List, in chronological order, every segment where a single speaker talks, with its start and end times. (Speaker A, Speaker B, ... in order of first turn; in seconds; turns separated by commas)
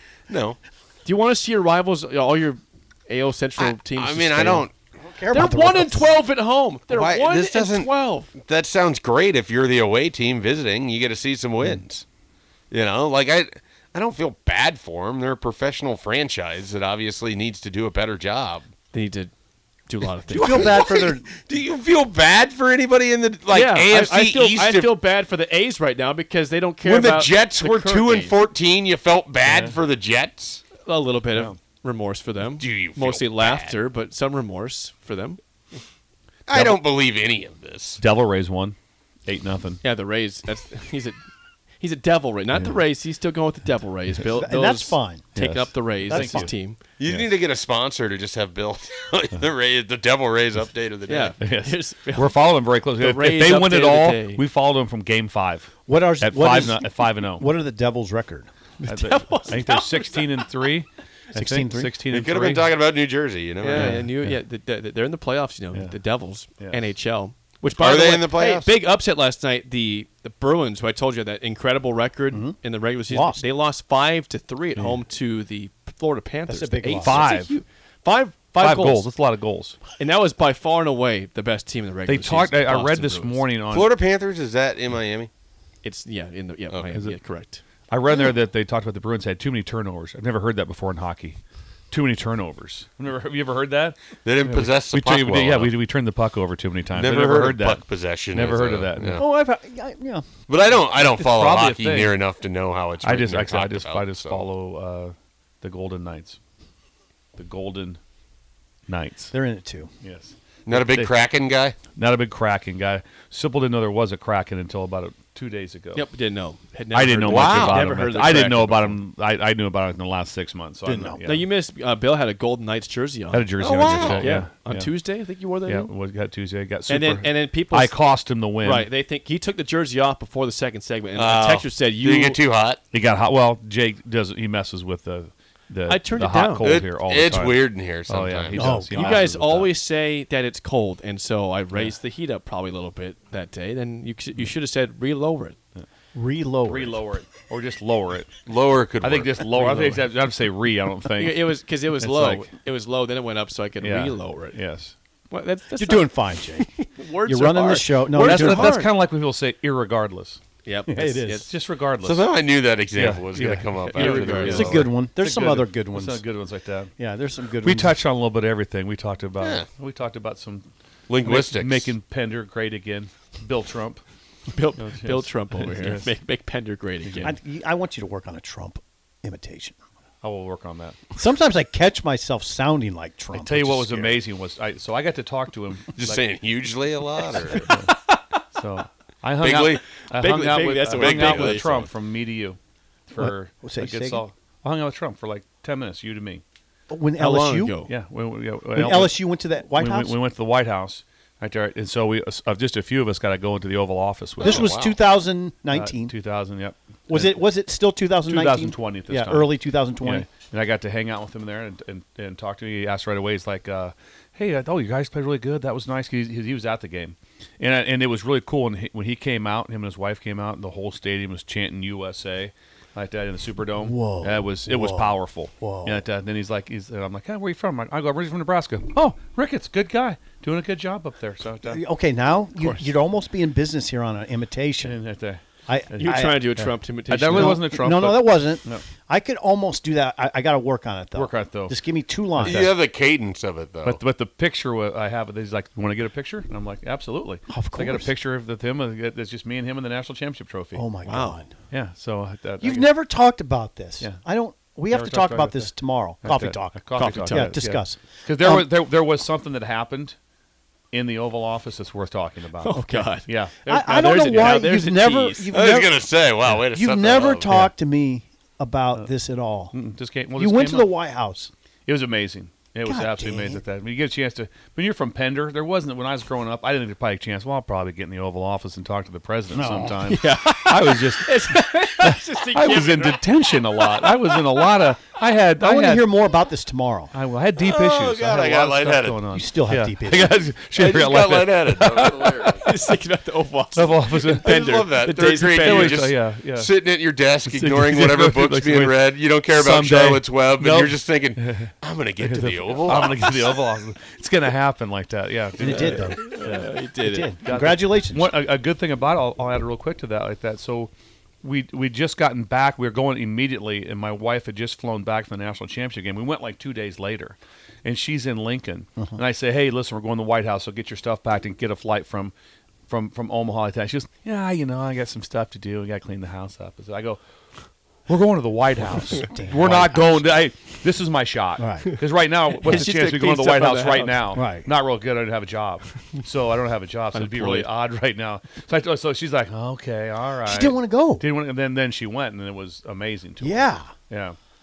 Speaker A: 0.3-0.6, Speaker B: 1.1-4.7, Speaker A: 3.6-4.8, Speaker C: 5.0-6.1, Speaker B: 5.3-8.3, Speaker A: 6.9-12.0, Speaker A: 12.7-18.7, Speaker B: 18.9-19.3, Speaker B: 19.9-20.8, Speaker C: 20.3-21.3, Speaker A: 20.4-24.9, Speaker B: 23.5-28.4, Speaker A: 26.8-30.6, Speaker D: 29.4-29.8, Speaker B: 30.8-35.4, Speaker A: 32.6-33.8, Speaker A: 36.5-38.0, Speaker D: 36.5-36.8, Speaker D: 38.0-39.8, Speaker B: 39.8-41.2, Speaker B: 41.8-46.8, Speaker C: 44.3-45.3, Speaker D: 45.4-46.5, Speaker C: 46.1-46.5, Speaker A: 47.0-51.4, Speaker B: 51.1-54.4, Speaker D: 51.4-57.5, Speaker C: 55.9-58.5, Speaker B: 58.8-60.3, Speaker D: 58.9-62.7, Speaker C: 61.3-61.9, Speaker A: 62.1-64.0, Speaker B: 63.6-79.1, Speaker D: 63.7-64.4, Speaker A: 67.8-68.7, Speaker C: 72.3-72.6, Speaker C: 73.1-73.4, Speaker C: 76.5-77.3, Speaker D: 76.9-77.5, Speaker D: 78.6-79.8, Speaker B: 80.0-83.4, Speaker D: 82.1-83.9, Speaker A: 83.7-85.3, Speaker B: 85.8-87.6, Speaker D: 87.9-91.4, Speaker D: 91.9-99.2, Speaker A: 94.2-95.8, Speaker A: 96.9-99.2, Speaker C: 99.2-100.3, Speaker A: 100.5-104.4, Speaker D: 101.0-102.2, Speaker D: 103.0-106.4, Speaker D: 107.4-108.0, Speaker D: 108.9-109.3, Speaker C: 109.3-109.9, Speaker D: 110.0-111.2, Speaker A: 110.7-111.8, Speaker D: 111.9-116.1, Speaker B: 115.9-119.0, Speaker D: 116.9-121.5, Speaker A: 117.3-117.9, Speaker C: 120.8-121.2, Speaker B: 121.2-125.9, Speaker D: 123.3-124.9, Speaker A: 123.6-124.5, Speaker D: 125.7-128.9, Speaker B: 126.9-132.4, Speaker A: 131.2-132.8, Speaker D: 132.9-139.7, Speaker B: 135.9-136.8, Speaker A: 136.6-138.8, Speaker C: 138.5-139.2, Speaker B: 138.8-145.6, Speaker C: 146.1-147.0, Speaker D: 146.6-148.4, Speaker A: 148.5-149.5, Speaker D: 149.0-152.5, Speaker B: 149.5-150.1, Speaker B: 151.2-154.6, Speaker D: 153.8-154.9, Speaker B: 155.3-158.9, Speaker C: 155.7-156.7, Speaker C: 157.2-158.8, Speaker D: 158.1-160.4, Speaker B: 160.7-161.5, Speaker C: 160.9-161.5, Speaker D: 161.4-162.3, Speaker A: 162.0-164.9, Speaker D: 162.9-166.9, Speaker B: 163.9-164.8, Speaker C: 164.0-166.3, Speaker C: 167.0-168.0, Speaker D: 167.6-170.7, Speaker A: 169.4-169.7, Speaker A: 171.1-172.0, Speaker D: 171.2-174.0, Speaker B: 174.5-177.4, Speaker D: 174.8-176.1, Speaker D: 177.0-177.4, Speaker C: 177.2-179.8, Speaker D: 180.2-181.0, Speaker C: 181.1-184.2, Speaker D: 183.3-186.2, Speaker A: 185.9-187.7, Speaker D: 187.6-187.9, Speaker D: 188.5-196.4, Speaker A: 189.4-189.8, Speaker B: 190.0-191.9, Speaker A: 190.9-191.8, Speaker C: 193.2-194.2, Speaker C: 196.9-197.8, Speaker B: 197.2-197.9, Speaker D: 197.9-199.2, Speaker C: 198.7-200.2, Speaker D: 199.7-204.7, Speaker C: 204.4-206.1, Speaker A: 204.4-205.0, Speaker D: 205.7-207.4, Speaker C: 207.1-210.3, Speaker D: 208.3-231.8, Speaker C: 223.8-226.0, Speaker C: 231.7-235.0, Speaker B: 232.6-232.9, Speaker D: 234.8-235.4, Speaker C: 235.7-236.5, Speaker D: 235.9-238.8, Speaker B: 236.0-237.7, Speaker C: 237.3-242.7, Speaker D: 241.1-241.8, Speaker D: 242.3-242.7, Speaker A: 242.4-244.0, Speaker D: 243.8-250.9, Speaker C: 247.5-248.1, Speaker C: 250.7-251.5, Speaker B: 251.1-251.4, Speaker D: 251.7-252.9, Speaker C: 252.6-258.7, Speaker D: 254.9-260.2, Speaker B: 257.0-257.6, Speaker D: 260.9-263.6, Speaker B: 262.6-265.5, Speaker C: 263.7-269.8, Speaker A: 265.5-267.6, Speaker D: 269.7-270.9, Speaker C: 270.4-271.5, Speaker D: 271.9-286.1, Speaker C: 272.8-273.6, Speaker C: 279.5-280.0, Speaker B: 280.0-284.6, Speaker C: 285.6-287.1, Speaker D: 287.1-292.7, Speaker A: 287.6-289.2, Speaker C: 289.3-290.4, Speaker A: 290.7-292.6, Speaker B: 292.5-296.1, Speaker D: 293.7-294.6, Speaker A: 294.3-303.5, Speaker D: 295.5-296.7, Speaker D: 297.5-306.7, Speaker C: 305.6-306.4, Speaker B: 305.7-307.3, Speaker C: 307.0-308.3, Speaker D: 307.4-310.9, Speaker D: 311.4-322.3, Speaker D: 322.9-327.2, Speaker D: 328.1-344.4, Speaker C: 329.1-330.2, Speaker C: 331.6-331.9, Speaker B: 332.5-334.2, Speaker C: 334.3-334.7, Speaker B: 337.1-337.7, Speaker C: 340.4-341.2, Speaker C: 343.4-343.9